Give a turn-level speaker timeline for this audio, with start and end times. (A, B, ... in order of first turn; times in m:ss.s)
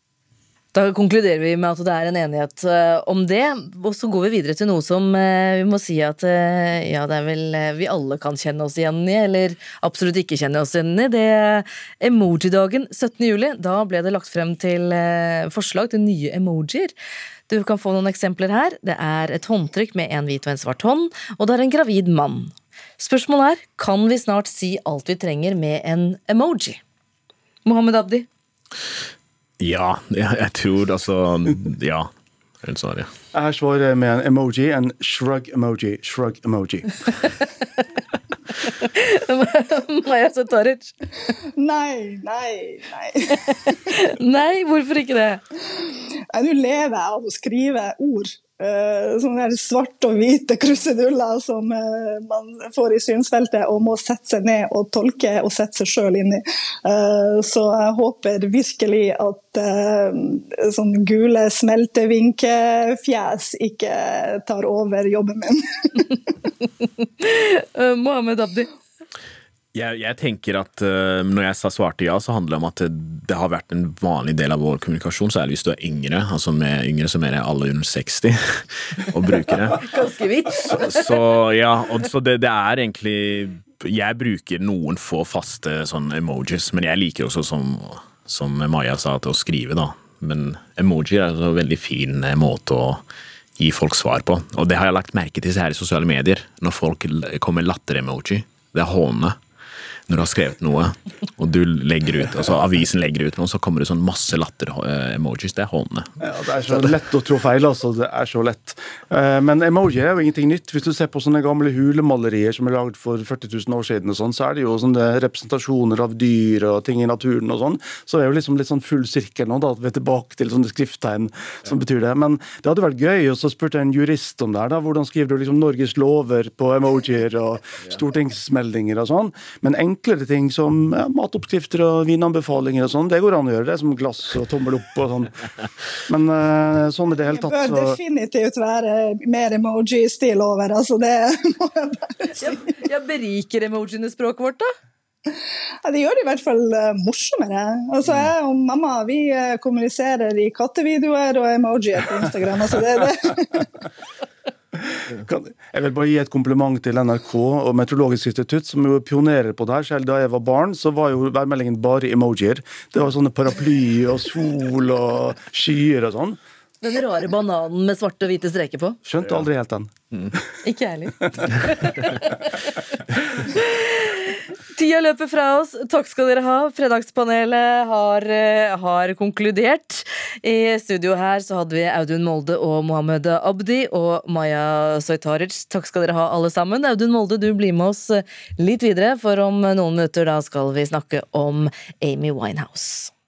0:00.7-0:16.9 A
0:17.5-0:26.8 A
0:27.6-0:28.2 A
0:29.6-0:32.1 B
0:32.6-0:33.1 B
0:33.3-0:36.9 C
0:38.6-0:40.9 A
0:41.6-0:43.8 D
0:43.9-0:45.4 A
0:46.3-1:06.1 D
1:07.0-1:08.7 A
1:09.7-1:19.8 B
1:19.8-1:21.2 A
1:20.7-1:33.0 B
1:33.6-1:39.4 B
1:40.1-1:46.1 B
1:46.2-2:15.4 C
2:16.1-2:18.0 C
2:17.3-2:22.6 D
2:22.4-2:24.7 A
2:25.8-2:33.7 D
2:35.1-2:46.4 C
2:46.8-2:49.0 A
2:49.0-2:50.4 C
2:50.6-2:52.5 A
2:53.4-3:13.1 A